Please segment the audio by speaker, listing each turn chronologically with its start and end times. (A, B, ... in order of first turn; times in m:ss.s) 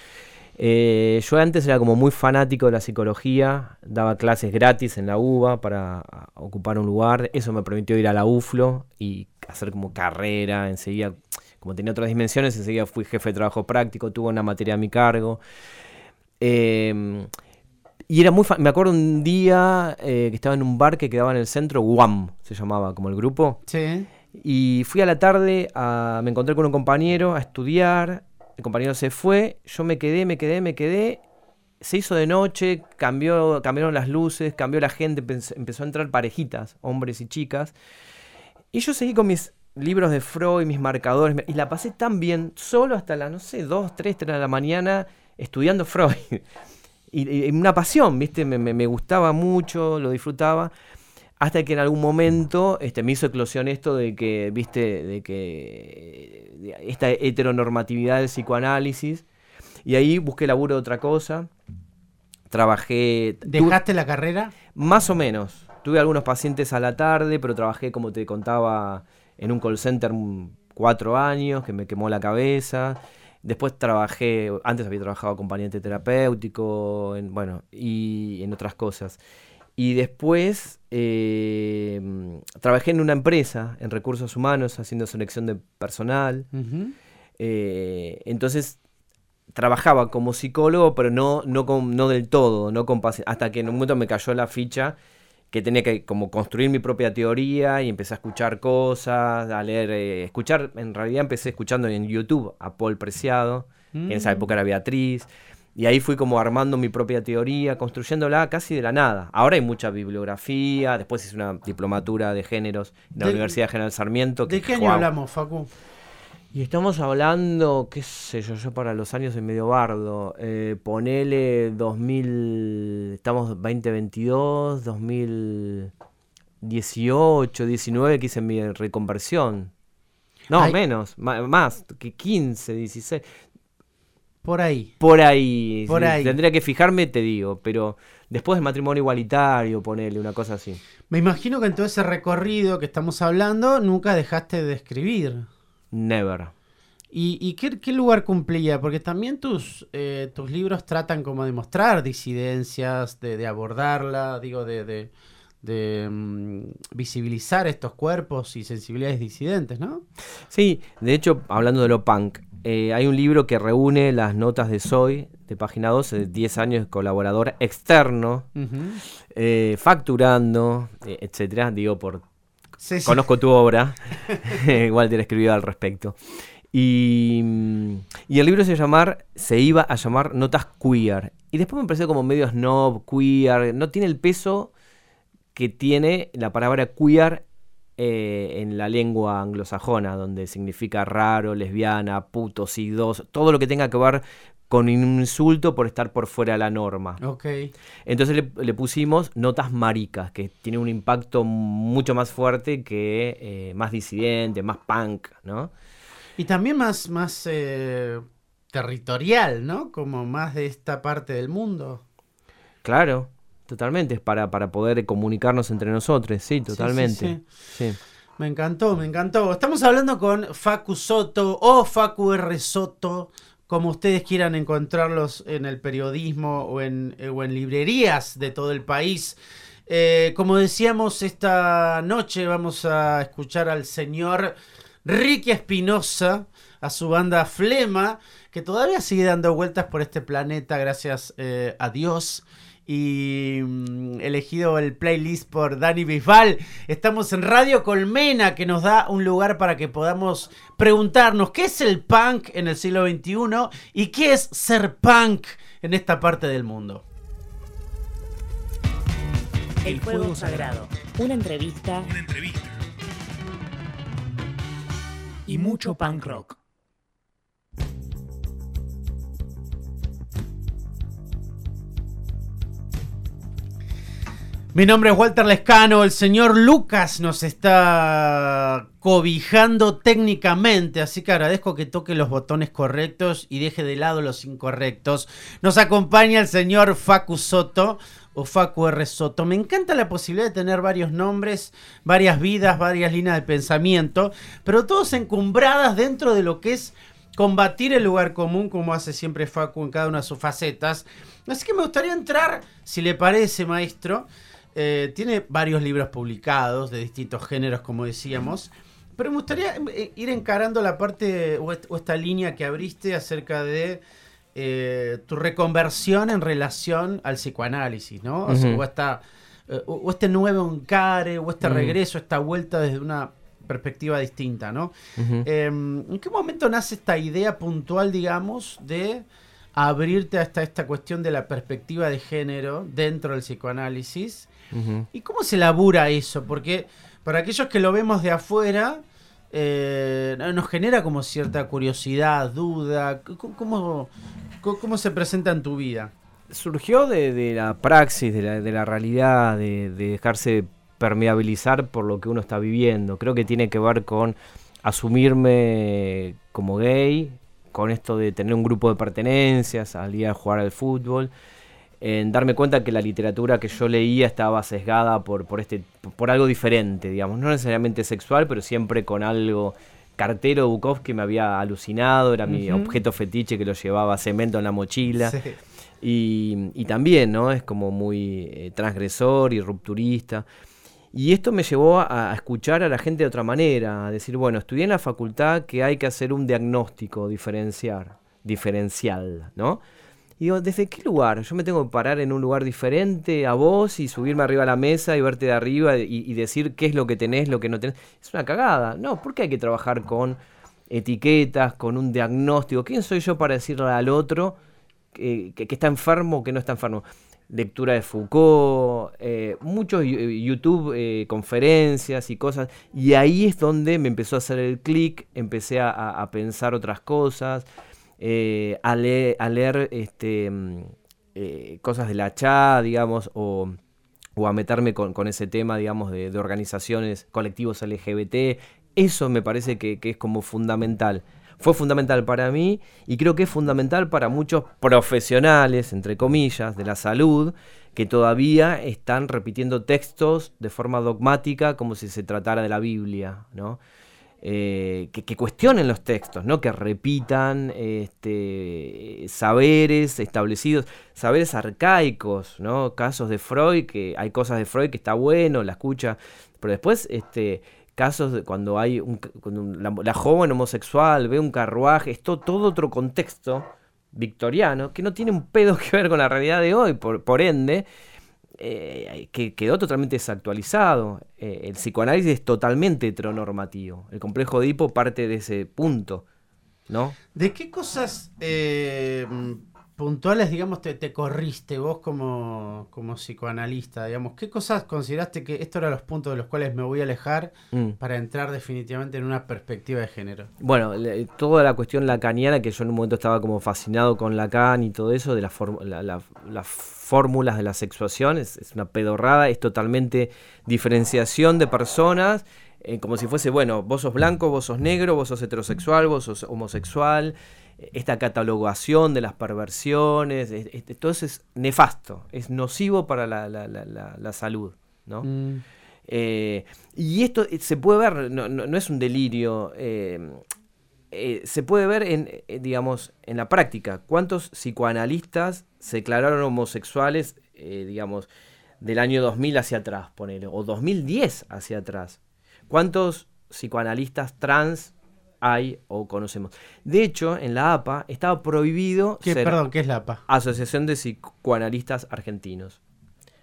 0:00.6-0:15.4 A
0:16.4-0:17.3 A
0:18.1-0:23.6 A
0:23.7-0:24.1 B
0:24.3-0:31.2 A
0:31.8-0:37.7 A
0:38.7-0:46.4 A
0:47.1-0:50.7 A
0:51.4-0:59.2 A
0:59.8-1:01.5 A
1:02.5-1:03.8 A
1:03.4-1:04.5 B
1:04.7-1:19.2 A
1:19.8-1:26.5 A
1:26.5-1:26.9 B
1:27.4-1:28.8 A
1:29.5-1:35.0 A
1:35.5-1:55.1 A
1:43.9-1:44.4 B
1:53.2-1:53.5 B
1:54.4-1:55.7 B
1:56.5-2:05.9 A
2:06.6-2:09.7 A
2:10.5-2:13.2 A
2:14.4-2:14.9 B
2:15.0-2:20.8 A
2:15.9-2:16.4 B
2:21.1-2:25.5 B
2:25.9-2:26.5 A
2:27.1-2:35.1 B
2:35.6-2:40.0 B
2:40.5-2:48.5 A
2:48.6-2:49.0 B
2:49.3-2:52.2 A
2:52.8-2:53.2 B
2:53.0-2:56.2 A
2:56.7-3:04.7 A
3:05.5-3:07.4 A
3:08.0-3:17.2 A
3:17.2-3:17.7 B
3:18.0-3:25.7 A
3:26.4-3:32.0 B
3:32.8-3:38.0 A
3:36.7-3:37.4 B
3:38.4-3:54.5 B
3:55.0-4:17.0 B
4:19.8-4:22.1 C
4:19.8-4:20.8 D
4:22.0-4:22.7 D
4:25.5-4:26.5 D
4:25.5-4:26.4 C
4:34.7-5:14.0 B
5:14.5-5:34.5 B
5:18.5-5:18.8 A
5:21.6-5:22.0 A
5:25.2-5:25.4 A
5:34.7-5:35.1 A
5:35.1-5:44.1 B
5:44.6-5:46.1 B
5:46.5-6:01.3 A
6:02.0-6:15.4 A
6:12.5-6:13.0 B
6:15.2-6:15.6 B
6:16.0-6:20.4 A
6:21.1-6:29.8 A
6:30.4-6:40.4 A
6:40.9-6:44.6 A
6:45.1-6:57.6 A
6:58.2-7:03.8 A
7:04.4-7:23.8 A
7:24.4-7:47.8 A
7:48.6-7:56.2 A
7:56.9-7:57.2 A
7:57.3-8:10.5 B
8:07.7-8:08.0 A
8:10.6-8:35.3 A
8:35.2-8:35.6 B
8:36.1-8:40.4 A
8:41.1-8:48.3 A
8:48.8-8:59.6 A
8:59.2-9:00.2 B
9:00.3-9:02.8 A